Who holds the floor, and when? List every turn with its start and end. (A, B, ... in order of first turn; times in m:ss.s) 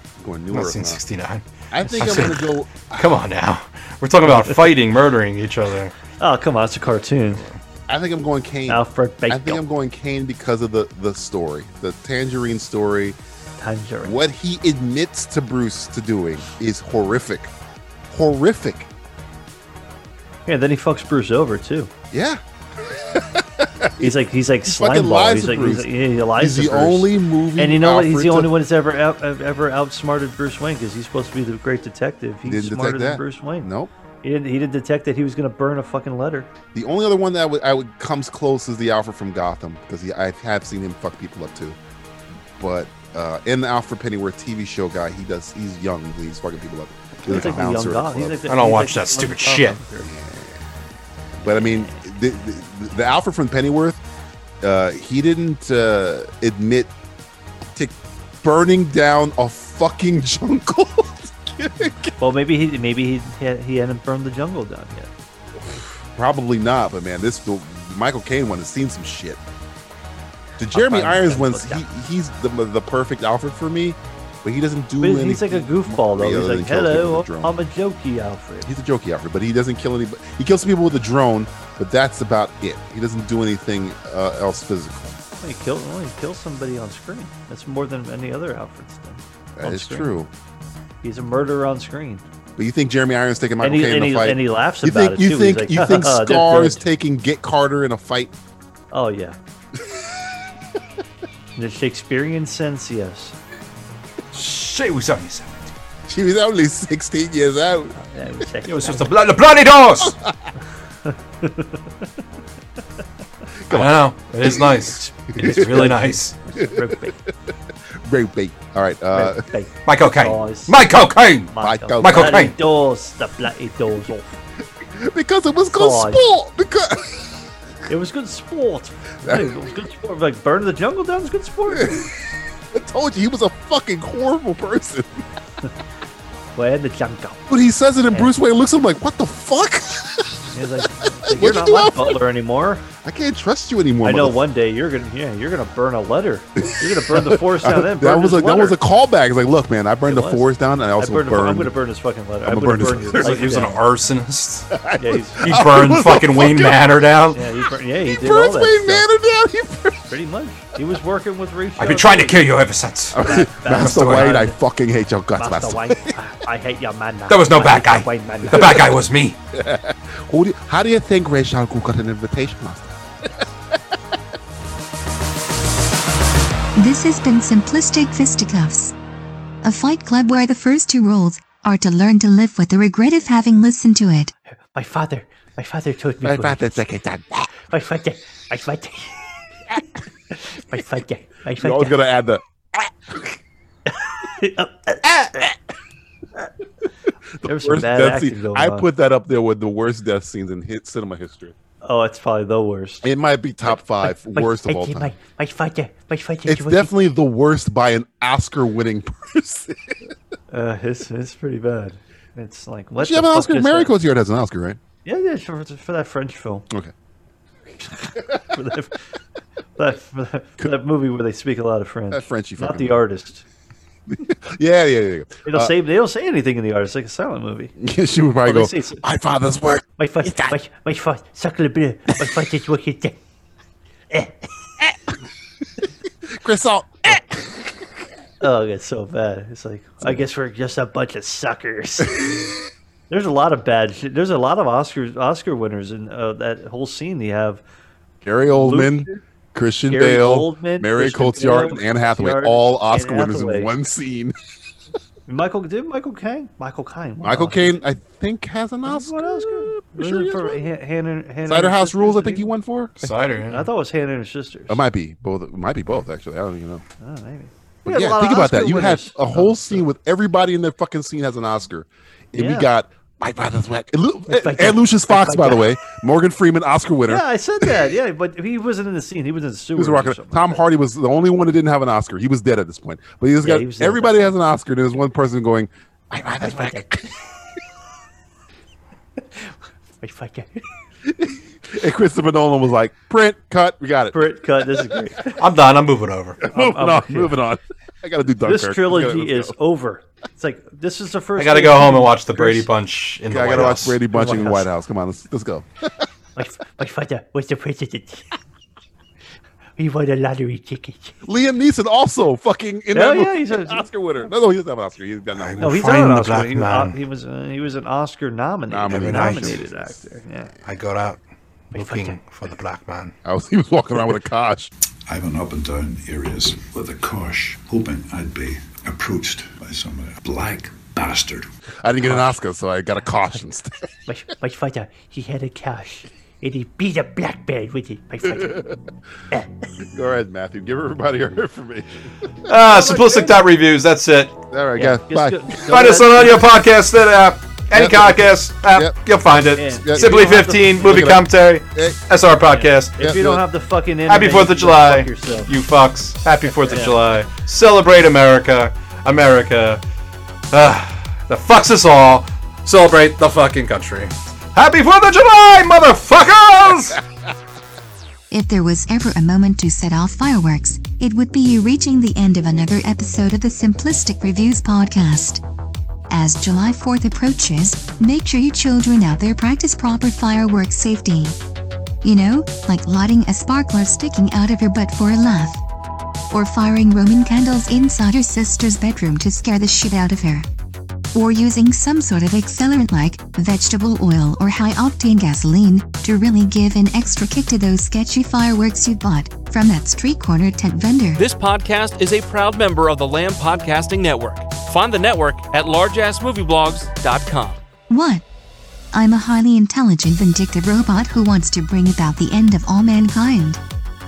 0:00.2-0:01.0 A
0:00.5-0:05.9 B
0:01.7-0:03.2 A
0:04.3-0:04.6 C
0:06.2-0:07.4 C
0:07.9-0:13.2 A
0:08.7-0:09.6 C
0:13.6-0:14.2 C
0:14.0-0:17.5 A
0:18.1-0:18.9 A
0:20.5-0:21.9 C
0:22.1-0:28.5 A
0:24.0-0:33.7 C
0:32.4-0:33.9 A
0:34.2-0:36.5 C
0:36.7-0:41.8 A
0:42.6-0:48.4 A
0:47.3-0:50.1 C
0:48.5-0:49.8 B
0:50.1-0:50.6 A
0:51.4-0:54.0 A
0:51.5-0:52.0 C
0:54.6-0:56.9 A
0:57.7-1:02.1 A
1:02.2-1:05.1 C
1:05.6-1:09.4 A
1:10.6-1:17.6 A
1:10.7-1:11.8 C
1:15.0-1:18.7 C
1:18.6-1:25.2 A
1:25.4-1:30.1 C
1:29.6-1:30.3 A
1:31.0-1:32.2 C
1:32.6-1:38.3 A
1:33.6-1:36.8 C
1:38.9-1:39.4 C
1:39.8-1:40.1 A
1:41.6-1:43.4 C
1:44.3-1:45.7 B
1:46.1-1:48.0 A
1:48.0-1:49.1 C
1:48.7-1:50.2 B
1:50.0-1:50.4 A
1:51.1-1:52.1 C
1:53.7-1:55.9 A
1:53.7-1:56.4 B
1:54.9-1:57.2 C
1:56.6-1:59.4 A
1:59.1-2:00.8 C
1:59.9-2:02.6 B
2:01.5-2:04.4 C
2:01.6-2:02.5 A
2:04.8-2:07.4 A
2:05.7-2:06.2 C
2:07.9-2:12.1 C
2:09.2-2:09.7 A
2:11.7-2:12.1 A
2:12.7-2:15.3 A
2:16.6-2:17.4 C
2:17.5-2:20.4 A
2:20.5-2:22.9 C
2:21.3-2:22.2 A
2:23.0-2:24.4 A
2:24.0-2:28.8 C
2:26.6-2:31.8 A
2:30.1-2:33.7 C
2:32.4-2:33.7 A
2:33.2-2:34.7 B
2:34.7-2:36.8 A
2:35.0-2:35.6 C
2:35.4-2:37.4 B
2:37.3-2:39.1 C
2:38.0-2:40.1 A
2:40.1-2:42.5 C
2:41.8-2:44.4 B
2:43.1-2:46.2 A
2:43.2-2:44.6 C
2:45.4-2:48.8 C
2:47.3-2:49.4 B
2:48.5-2:48.8 A
2:49.5-2:54.0 A
2:56.8-2:58.9 D
2:59.6-3:04.3 D
3:04.6-3:06.9 C
3:06.2-3:07.5 A
3:07.7-3:09.2 C
3:10.3-3:12.0 C
3:11.6-3:13.4 A
3:13.9-3:15.5 C
3:15.1-3:15.5 A
3:17.4-3:21.6 A
3:17.4-3:18.9 C
3:21.8-3:23.1 C
3:23.0-3:25.1 A
3:23.6-3:27.1 C
3:26.5-3:30.0 A
3:30.5-3:33.9 C
3:33.0-3:34.8 A
3:35.0-3:36.7 C
3:37.9-3:39.0 C
3:39.8-3:43.4 C
3:42.1-3:43.0 A
3:44.1-3:45.8 A
3:45.4-3:47.7 C
3:47.8-3:50.6 A
3:48.4-3:49.0 C
3:50.0-3:53.2 C
3:54.1-3:54.5 C
3:56.3-3:57.8 A
3:58.4-4:02.5 C
4:03.1-4:07.6 C
4:08.2-4:14.4 A
4:08.5-4:09.2 C
4:09.9-4:13.7 C
4:15.3-4:17.8 C
4:17.2-4:20.6 A
4:18.8-4:22.5 C
4:21.5-4:23.1 A
4:23.0-4:23.7 B
4:23.5-4:24.8 C
4:24.7-4:26.8 A
4:27.0-4:29.9 C
4:27.8-4:37.8 A
4:32.4-4:32.7 C
4:34.3-4:35.8 C
4:37.1-4:40.6 C
4:39.8-4:47.2 A
4:43.4-4:44.3 C
4:46.4-4:47.0 C
4:49.4-4:50.7 C
4:51.0-4:55.1 A
4:54.1-4:55.4 C
4:55.4-4:56.4 B
4:56.4-4:59.6 A
4:56.5-4:57.4 C
4:58.4-5:02.6 C
5:01.4-5:04.0 B
5:03.3-5:06.0 A
5:03.6-5:04.7 C
5:06.4-5:08.3 C
5:09.8-5:11.1 C
5:11.2-5:15.8 A
5:12.9-5:13.9 C
5:15.4-5:17.0 B
5:15.6-5:20.5 C
5:18.7-5:19.7 A
5:18.9-5:19.6 B
5:20.6-5:21.2 B
5:21.7-5:23.1 B
5:21.7-5:22.2 C
5:23.2-5:24.7 A
5:25.1-5:31.5 E
5:31.8-5:33.9 A
5:32.0-5:32.4 C
5:34.1-5:38.7 C
5:38.2-5:38.8 A
5:39.9-5:42.1 A
5:42.5-5:44.4 B
5:42.6-5:43.4 C
5:44.5-5:46.0 A
5:44.8-5:46.4 C
5:45.7-5:52.9 B
5:47.7-5:49.0 A
5:49.6-5:51.2 C
5:49.8-5:52.0 A
5:52.5-5:55.5 C
5:53.0-5:53.4 A
5:54.1-5:59.8 B
5:56.6-5:57.0 C
6:00.5-6:07.0 B
6:08.3-6:15.4 D
6:16.1-6:21.4 D
6:22.0-6:25.6 D
6:26.3-6:30.5 D
6:31.1-6:41.2 D
6:41.2-6:47.6 F
6:47.9-6:48.2 D
6:48.9-6:53.6 D